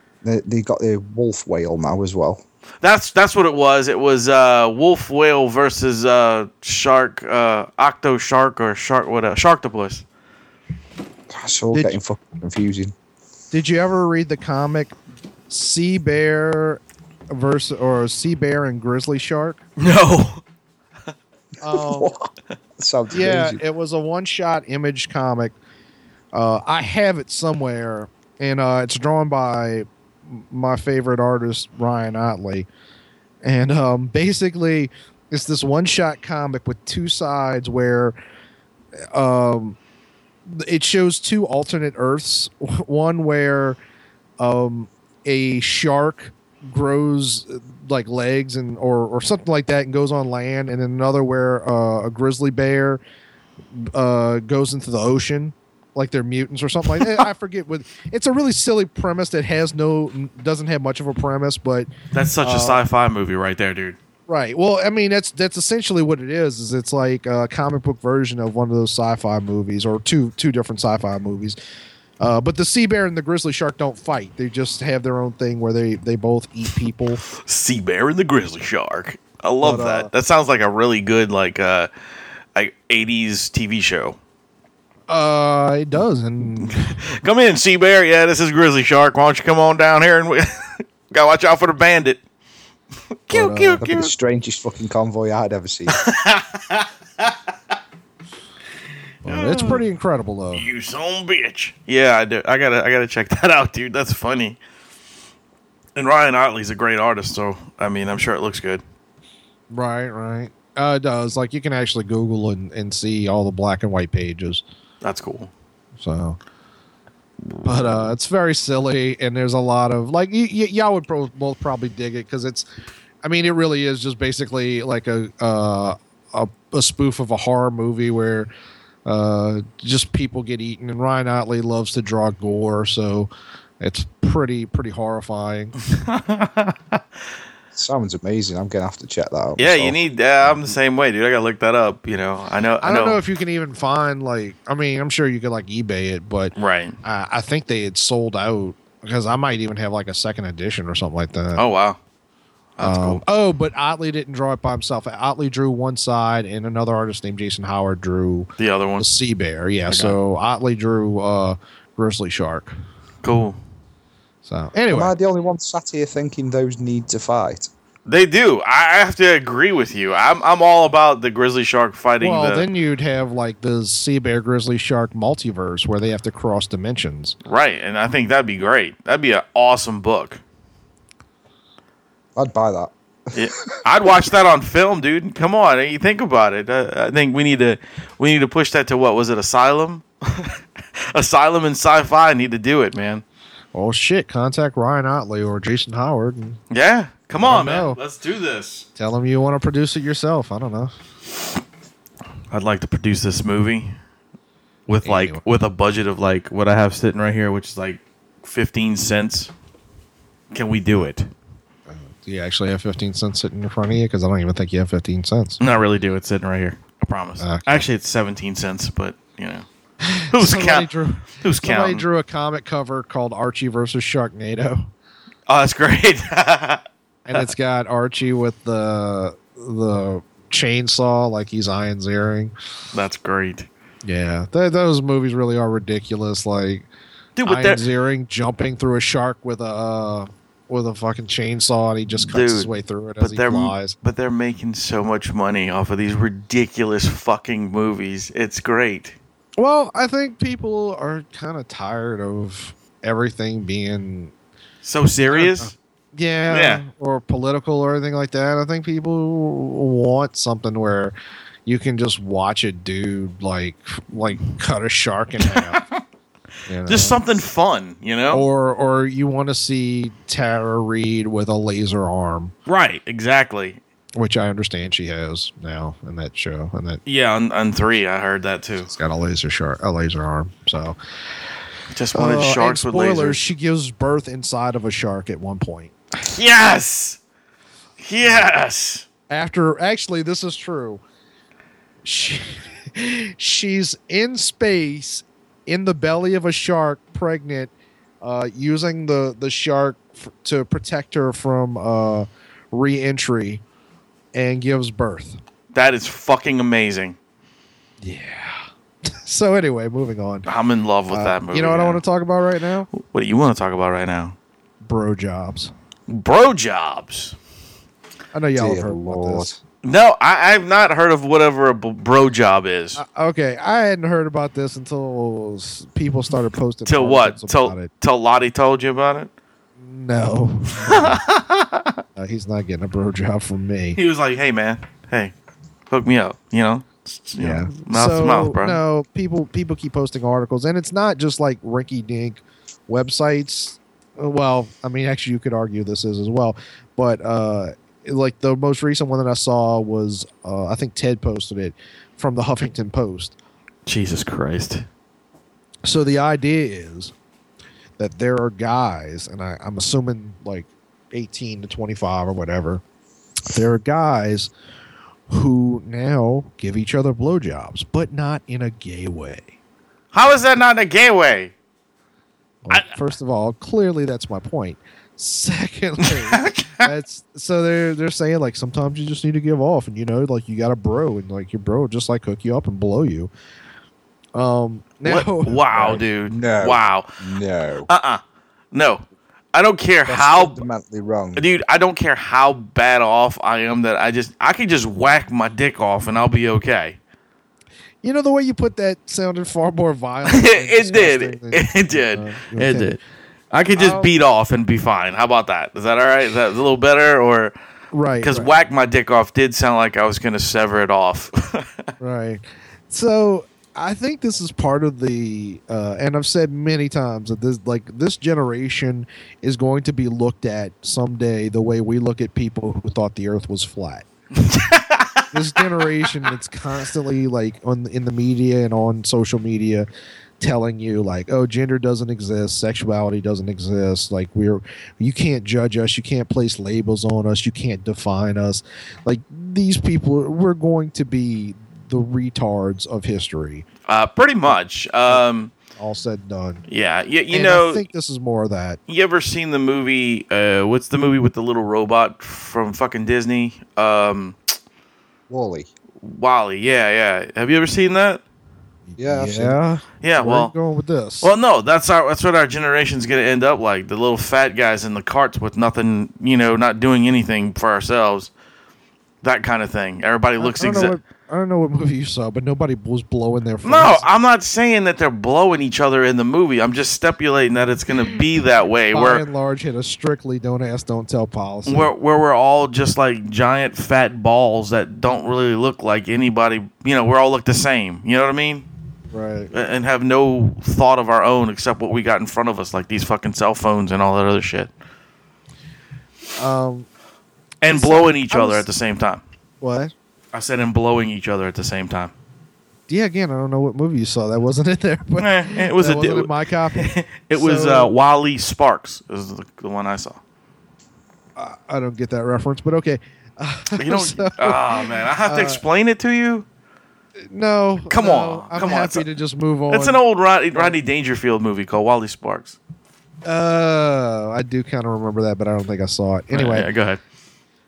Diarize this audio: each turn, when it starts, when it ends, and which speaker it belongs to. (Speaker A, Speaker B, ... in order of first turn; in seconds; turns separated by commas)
Speaker A: 0.2-2.4, Speaker B: 2.8-10.0, Speaker A: 11.3-12.9, Speaker C: 11.7-12.0, Speaker C: 13.5-14.9, Speaker C: 15.5-19.6, Speaker B: 19.8-20.4, Speaker C: 21.6-22.1, Speaker A: 21.6-23.6, Speaker C: 23.1-25.5, Speaker C: 26.3-32.7, Speaker C: 33.4-38.1, Speaker C: 39.1-39.8, Speaker C: 40.5-43.8, Speaker C: 44.4-53.0, Speaker C: 53.7-61.9, Speaker B: 62.1-64.0, Speaker C: 62.4-62.8, Speaker C: 64.3-71.6, Speaker C: 72.2-77.2, Speaker B: 77.3-81.9, Speaker C: 79.6-80.1, Speaker B: 82.5-84.2, Speaker C: 85.1-86.8, Speaker B: 86.6-92.2, Speaker B: 93.3-94.1, Speaker C: 93.3-93.8, Speaker A: 93.8-96.0, Speaker B: 95.9-97.3, Speaker B: 99.2-99.8, Speaker C: 99.2-100.6, Speaker B: 100.5-104.6, Speaker B: 106.0-108.8, Speaker C: 109.7-114.6, Speaker B: 115.0-115.5, Speaker C: 116.0-116.4, Speaker B: 117.5-118.1, Speaker C: 117.6-122.7, Speaker C: 123.2-128.5, Speaker C: 129.1-133.3, Speaker C: 133.8-135.7, Speaker B: 135.9-137.0, Speaker A: 137.7-140.7, Speaker B: 139.6-143.2, Speaker C: 142.8-151.6, Speaker B: 146.6-147.0, Speaker B: 151.6-152.0, Speaker B: 152.8-153.2, Speaker C: 152.8-162.7, Speaker B: 158.6-159.1, Speaker B: 159.9-160.2, Speaker B: 163.2-163.6, Speaker C: 164.4-165.1, Speaker A: 164.9-167.7, Speaker B: 168.1-172.7, Speaker C: 172.2-177.4, Speaker B: 177.4-180.4, Speaker A: 182.3-183.5, Speaker B: 183.3-193.2, Speaker C: 193.7-196.6, Speaker B: 196.7-198.9, Speaker C: 197.4-198.0, Speaker C: 198.9-200.9, Speaker B: 202.5-203.9, Speaker B: 204.9-209.5, Speaker C: 205.0-205.4, Speaker B: 210.5-211.3, Speaker C: 211.9-215.6, Speaker B: 215.6-219.7, Speaker C: 217.4-217.8, Speaker C: 220.0-224.9, Speaker B: 220.3-222.0, Speaker B: 225.5-227.4, Speaker C: 227.2-232.5, Speaker B: 232.9-233.7, Speaker C: 234.0-236.9, Speaker B: 237.4-237.8, Speaker C: 237.4-243.9, Speaker B: 242.1-249.2, Speaker C: 249.6-254.3, Speaker B: 254.8-255.7, Speaker C: 255.3-261.1, Speaker B: 256.5-256.8, Speaker C: 261.6-265.8, Speaker B: 265.4-266.0, Speaker C: 266.7-267.2, Speaker B: 266.9-268.5, Speaker C: 268.3-272.5, Speaker B: 272.7-273.8, Speaker C: 274.2-277.0, Speaker B: 277.1-278.9, Speaker C: 278.9-280.9, Speaker B: 281.9-283.4, Speaker C: 282.1-285.9, Speaker B: 286.3-287.2, Speaker B: 288.0-289.0, Speaker C: 289.3-291.0, Speaker C: 292.0-303.6, Speaker C: 304.3-305.4, Speaker B: 305.7-307.2, Speaker C: 308.0-310.5, Speaker B: 310.5-312.0, Speaker C: 311.1-312.9, Speaker B: 312.9-314.4, Speaker C: 314.8-315.7, Speaker B: 316.1-317.4, Speaker C: 318.3-319.5, Speaker A: 318.6-319.6, Speaker B: 319.8-323.0, Speaker C: 323.0-327.9, Speaker B: 326.9-329.3, Speaker C: 329.8-331.2, Speaker B: 330.8-332.0, Speaker C: 332.1-334.0, Speaker B: 333.9-335.3, Speaker B: 335.9-338.8, Speaker C: 337.4-353.3, Speaker B: 353.9-354.9, Speaker C: 355.8-357.1, Speaker C: 358.0-362.8, Speaker C: 363.5-364.5, Speaker C: 365.3-369.5, Speaker B: 370.1-371.5, Speaker C: 372.6-383.3, Speaker B: 376.3-376.9, Speaker C: 384.3-386.0, Speaker B: 385.0-387.1, Speaker A: 386.3-387.9, Speaker B: 387.9-388.2, Speaker B: 388.7-390.6, Speaker A: 390.1-391.4, Speaker B: 391.4-397.0, Speaker C: 398.0-403.0, Speaker B: 400.2-403.0, Speaker B: 403.5-407.5, Speaker C: 403.8-404.1, Speaker C: 407.9-408.5, Speaker B: 408.2-411.9, Speaker C: 412.0-424.1, Speaker B: 424.4-425.2, Speaker C: 425.3-429.9, Speaker C: 430.4-443.6, Speaker B: 443.9-445.5, Speaker C: 445.7-446.6, Speaker B: 446.7-447.8, Speaker C: 447.3-448.8, Speaker B: 448.9-454.5, Speaker A: 455.3-455.7, Speaker B: 456.0-458.2, Speaker C: 458.9-461.3, Speaker A: 459.0-459.6, Speaker B: 460.0-460.5, Speaker B: 461.2-468.3, Speaker B: 469.2-470.9, Speaker C: 470.4-474.0, Speaker B: 473.6-479.2, Speaker C: 478.9-481.9, Speaker B: 481.7-488.7, Speaker C: 489.1-489.5, Speaker B: 489.5-494.7, Speaker C: 496.4-496.9, Speaker B: 497.6-499.2, Speaker C: 497.7-498.6, Speaker C: 499.6-499.9, Speaker B: 500.3-502.1, Speaker C: 502.9-507.9, Speaker B: 505.2-510.2, Speaker C: 511.4-515.6, Speaker B: 513.8-516.5, Speaker C: 517.2-520.0, Speaker B: 517.9-519.1, Speaker B: 519.7-522.6, Speaker C: 523.2-526.7, Speaker B: 526.3-527.0